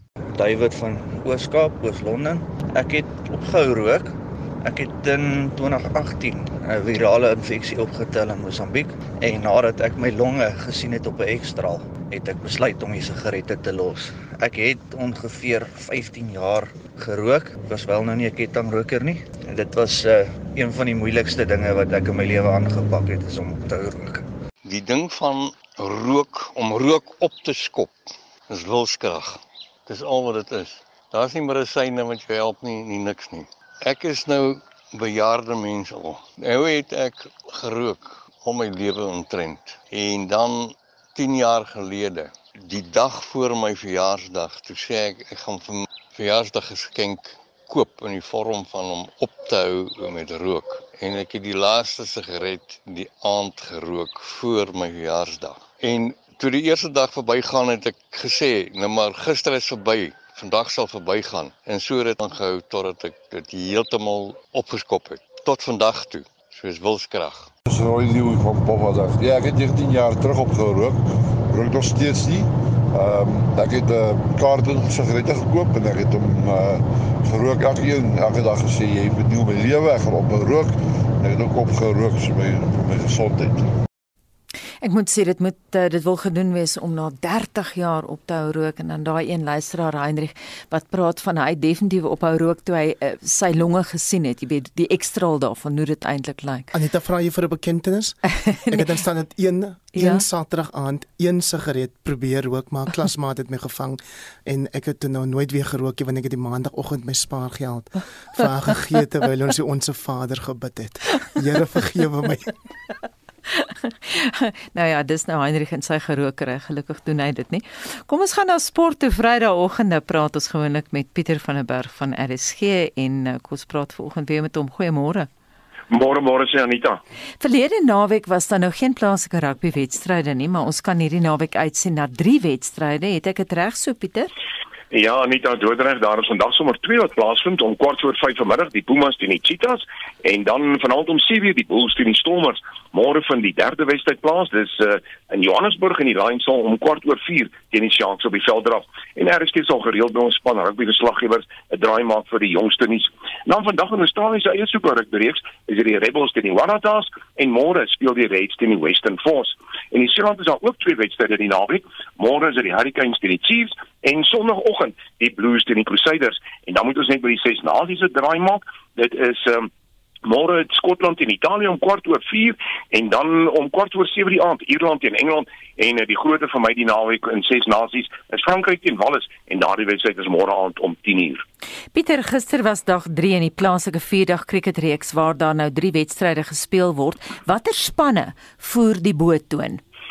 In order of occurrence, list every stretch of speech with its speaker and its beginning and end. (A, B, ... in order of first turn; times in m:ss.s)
0:00.3-0:24.2 A
0:24.6-1:07.5 B
1:07.7-1:23.7 C
1:24.8-1:36.7 D
1:36.7-1:52.5 E
1:39.9-1:40.2 D
1:53.5-2:05.3 D
2:05.9-2:07.0 F
2:07.4-2:14.3 D
2:14.9-2:49.7 F
2:50.2-3:01.4 F
3:01.9-3:09.8 D